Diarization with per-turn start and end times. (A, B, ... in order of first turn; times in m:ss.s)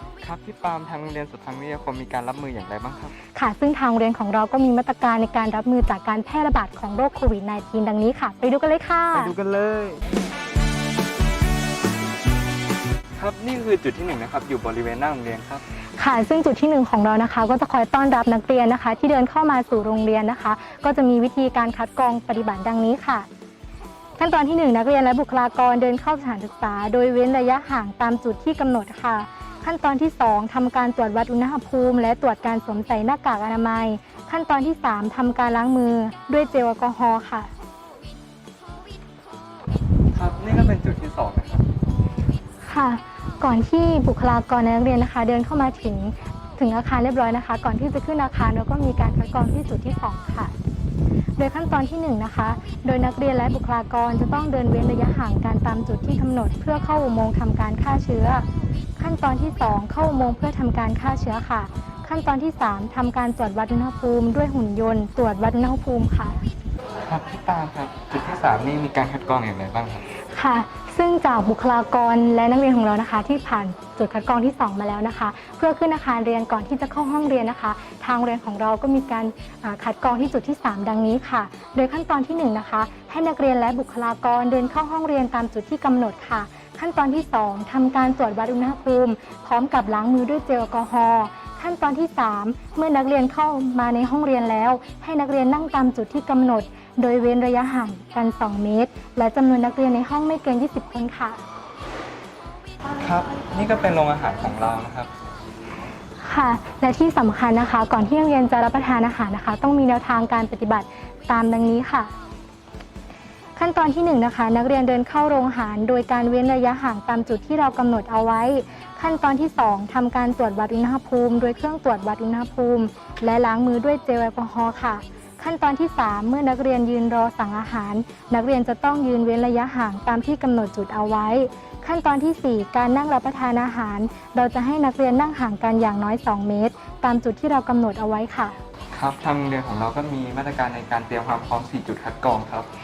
0:00.2-0:03.2 A
0:03.4-0:09.4 B
0:09.1-0:10.0 A
0:13.2-0:15.6 A
0:16.0-0:23.3 B
0:24.2-0:37.5 B
0:40.1-0:41.6 A
0:42.6-0:50.5 B
0:51.4-0:58.5 B
0:59.0-1:06.4 B
1:07.0-1:10.0 A
1:10.3-1:41.4 B
1:43.0-1:45.1 A
1:46.2-1:52.1 B
1:53.6-2:18.6 B
2:18.9-2:22.7 A